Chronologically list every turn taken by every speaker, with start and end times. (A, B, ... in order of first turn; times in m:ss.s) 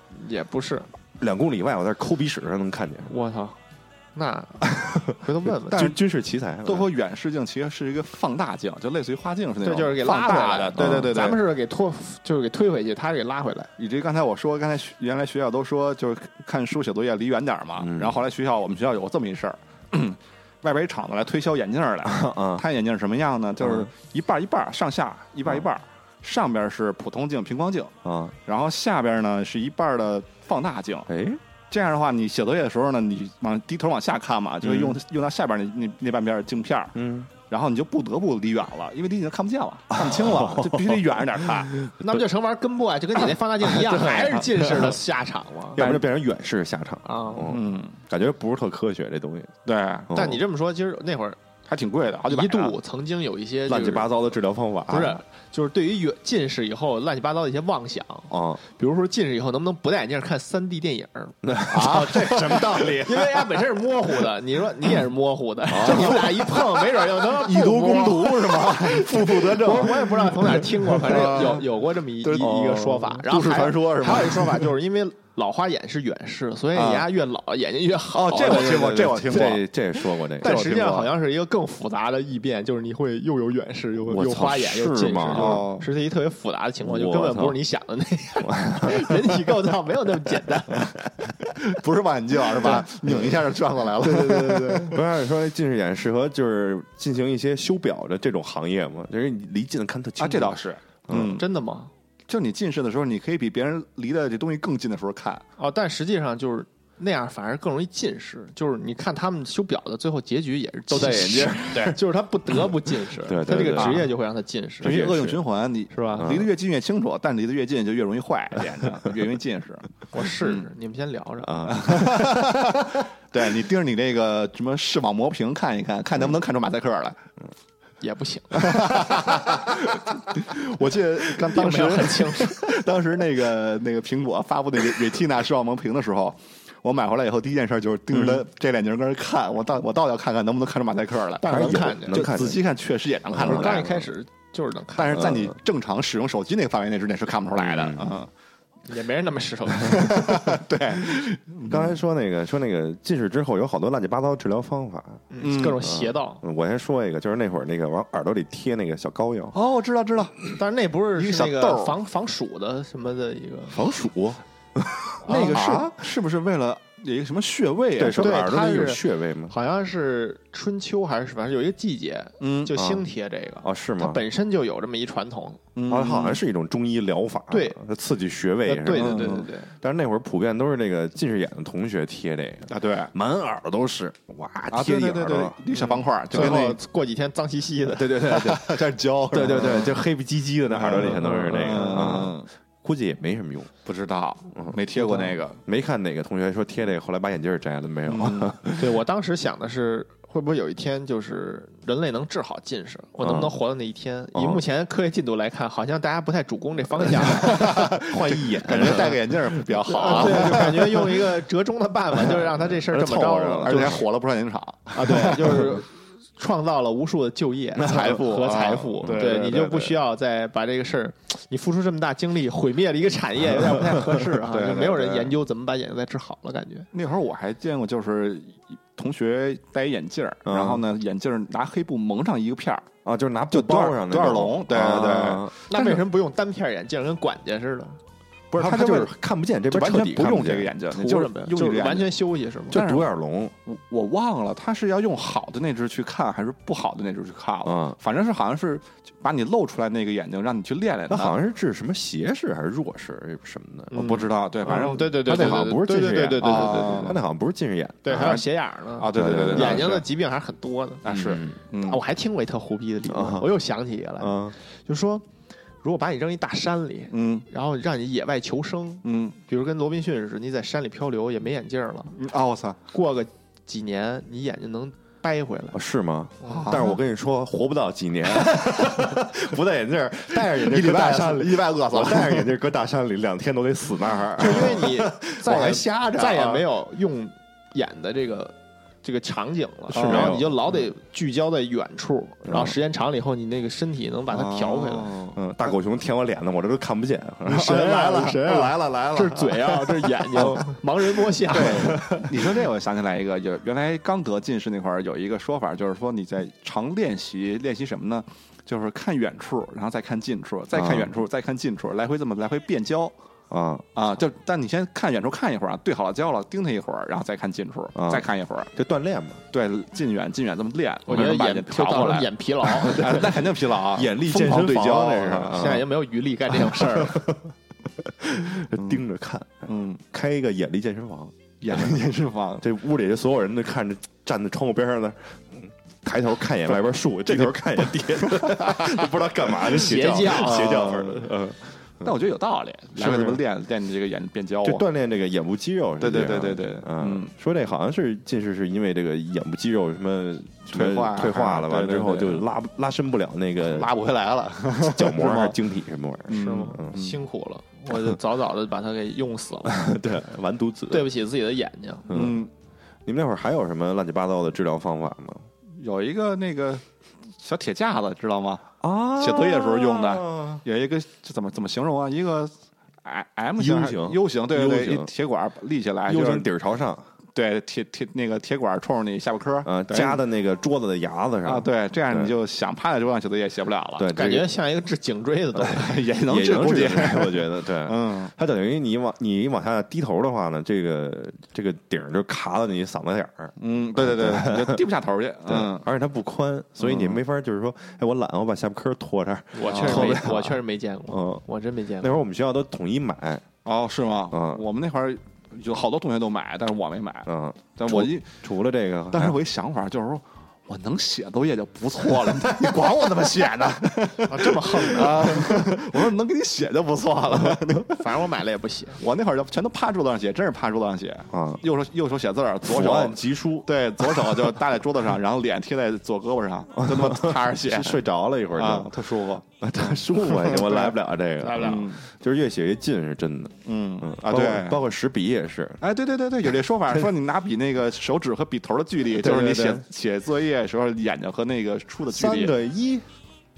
0:00.1-0:00.9 A
0:01.2-0:03.1 B
0:03.1-0:03.6 A
0:04.2-0:05.9 A
0:04.7-0:06.9 B
0:05.7-0:06.0 C
0:06.6-0:11.4 C
0:09.6-0:13.7 A
0:10.8-0:11.3 B
0:13.8-0:27.9 C
0:17.8-0:18.2 B
0:22.0-0:22.6 B
0:23.6-0:23.9 B
0:28.0-0:28.4 B
0:28.5-0:31.1 C
0:31.1-0:31.4 B
0:31.7-0:37.0 C
0:34.6-0:35.0 B
0:36.9-0:37.3 B
0:37.5-0:41.7 C
0:39.9-0:42.2 B
0:42.0-0:45.8 A
0:43.8-0:44.9 C
0:45.8-0:49.5 B
0:45.8-0:46.0 C
0:47.0-0:47.5 A
0:47.5-0:48.0 C
0:49.6-0:50.1 C
0:50.1-0:50.4 B
0:50.1-0:51.4 A
0:51.7-0:52.8 C
0:52.3-0:54.2 A
0:53.7-0:55.2 B
0:54.9-1:31.0 A
0:58.3-0:58.6 B
1:01.4-1:03.5 B
1:01.7-1:03.0 C
1:05.7-1:06.5 B
1:05.8-1:06.2 C
1:07.4-1:11.7 C
1:07.5-1:08.2 B
1:12.2-1:14.7 C
1:12.4-1:13.0 B
1:16.8-1:17.1 C
1:18.1-1:19.6 C
1:18.5-1:21.1 B
1:20.4-1:20.8 C
1:24.1-1:25.7 B
1:25.3-1:25.9 C
1:26.8-1:27.6 B
1:28.4-1:29.4 B
1:31.6-1:35.0 C
1:33.0-1:33.3 B
1:34.1-1:34.9 A
1:34.3-1:40.6 B
1:40.2-1:41.4 C
1:41.1-1:41.4 B
1:41.1-1:41.9 A
1:42.3-1:45.4 C
1:45.6-1:55.1 A
1:50.9-1:52.0 B
1:53.2-1:54.1 B
1:53.7-1:54.1 C
1:54.8-1:59.9 C
1:54.8-1:55.4 B
1:55.9-1:56.3 A
1:56.2-1:56.5 B
2:00.1-2:01.9 A
2:00.4-2:00.7 C
2:01.5-2:02.8 B
2:01.7-2:07.2 C
2:08.0-2:09.3 A
2:08.6-2:23.9 C
2:11.4-2:12.8 A
2:21.4-2:22.3 A
2:21.5-2:22.6 B
2:23.3-2:23.9 B
2:23.4-2:25.4 A
2:25.0-2:28.3 C
2:25.2-2:25.5 B
2:27.6-2:28.2 B
2:28.9-2:30.5 A
2:29.8-2:31.9 C
2:31.7-2:35.2 B
2:35.3-2:36.4 A
2:35.4-2:35.8 C
2:35.8-2:39.6 B
2:39.5-2:40.6 C
2:40.6-2:44.0 A
2:41.2-2:42.0 C
2:43.7-2:46.0 B
2:45.2-2:45.8 A
2:45.3-2:48.4 C
2:48.0-2:49.5 B
2:48.2-2:55.6 A
2:52.4-2:52.8 C
2:52.8-2:53.1 B
2:53.6-2:54.2 B
2:55.8-2:56.4 C
2:55.9-3:05.6 B
2:57.5-2:57.8 A
2:58.7-2:59.7 A
2:58.9-2:59.5 C
3:02.7-3:03.1 C
3:04.7-3:06.8 C
3:05.7-3:08.4 A
3:06.3-3:06.7 B
3:07.9-3:13.7 B
3:08.3-3:10.0 C
3:10.8-3:12.5 C
3:11.2-3:12.2 A
3:13.8-3:15.6 C
3:15.0-3:15.3 A
3:15.6-3:19.0 B
3:18.1-3:18.6 C
3:18.8-3:27.8 A
3:23.2-3:23.6 B
3:24.3-3:24.6 B
3:27.3-3:31.0 B
3:27.4-3:31.2 C
3:29.8-3:34.0 A
3:32.6-3:34.0 B
3:33.6-3:35.7 C
3:34.9-3:46.9 A
3:37.8-3:38.2 B
3:37.9-3:39.8 C
3:39.0-3:39.9 B
3:44.5-3:45.3 C
3:46.9-3:52.9 C
3:50.4-3:50.8 B
3:53.0-3:56.0 B
3:53.5-3:55.6 C
3:55.7-3:58.0 A
3:58.5-4:00.7 B
3:58.6-3:59.1 C
3:59.7-4:03.1 C
4:00.9-4:02.8 A
4:02.7-4:03.5 B
4:03.7-4:11.4 C
4:07.6-4:08.0 B
4:11.1-4:14.0 B
4:13.9-4:17.1 A
4:13.9-4:15.7 C
4:14.6-4:18.4 B
4:16.4-4:17.2 C
4:18.0-4:21.0 A
4:19.0-4:20.0 C
4:19.1-4:20.0 B
4:21.0-4:22.0 C
4:21.1-4:21.6 B
4:21.8-4:25.2 A
4:23.0-4:23.6 B
4:24.2-4:24.6 B
4:25.8-4:32.1 A
4:27.1-4:27.5 C
4:29.0-4:29.4 C
4:32.2-4:32.8 C
4:32.9-4:35.8 A
4:35.7-4:45.7 B
4:36.4-4:36.9 A
4:36.5-4:36.9 C
4:40.4-4:42.5 C
4:44.4-4:55.1 A
4:44.4-4:46.7 C
4:49.9-4:50.6 B
4:49.9-4:50.5 C
4:52.4-4:52.8 B
4:54.3-4:55.4 C
4:55.4-4:57.9 B
4:57.5-5:02.3 A
4:57.5-5:00.7 C
5:01.5-5:13.1 C
5:01.9-5:02.2 B
5:10.7-5:11.1 B
5:13.5-5:13.8 B
5:14.0-5:18.7 C
5:18.0-5:19.4 B
5:19.5-5:25.8 C
5:21.1-5:23.2 A
5:22.8-5:25.9 B
5:25.3-5:27.2 A
5:26.5-5:32.0 B
5:28.8-5:29.0 C
5:29.7-5:30.0 C
5:31.6-5:32.6 C
5:32.6-5:42.1 B
5:36.8-5:41.3 C
5:39.7-5:41.0 A
5:42.0-5:44.8 C
5:43.0-5:43.4 B
5:44.6-5:53.9 B
5:46.0-5:47.3 C
5:50.7-5:52.5 C
5:53.6-5:55.6 C
5:54.8-5:57.0 B
5:56.3-5:57.2 C
5:56.3-5:59.9 A
5:57.9-5:58.2 B
5:59.7-6:01.1 B
6:00.9-6:02.2 A
6:02.1-6:02.4 B
6:02.1-6:02.5 C
6:03.1-6:05.5 B
6:05.8-6:06.8 C
6:07.4-6:12.5 C
6:08.8-6:10.6 B
6:13.0-6:16.5 C
6:13.6-6:15.1 B
6:16.1-6:17.0 B
6:17.4-6:20.2 C
6:19.6-6:22.3 B
6:21.4-6:24.1 C
6:24.0-6:24.5 B
6:24.1-6:26.0 A
6:25.6-6:34.8 B
6:25.7-6:28.3 C
6:33.6-6:35.9 C
6:35.5-6:41.4 B
6:36.8-6:37.2 C
6:39.5-6:42.2 A
6:39.7-6:40.2 C
6:42.0-6:43.5 B
6:43.6-6:48.3 C
6:44.3-6:44.6 B
6:47.3-6:49.4 B
6:49.1-6:58.1 C
6:54.3-6:55.6 A
6:57.9-6:59.0 A
6:59.0-7:08.0 C
7:01.3-7:01.6 B
7:02.7-7:04.6 B
7:06.8-7:08.9 B
7:08.6-7:09.4 C
7:09.6-7:15.8 B
7:10.2-7:10.9 C
7:11.4-7:11.8 A
7:11.6-7:12.0 C
7:13.6-7:14.8 C
7:15.8-7:22.6 C
7:19.2-7:19.8 B
7:22.1-7:23.0 B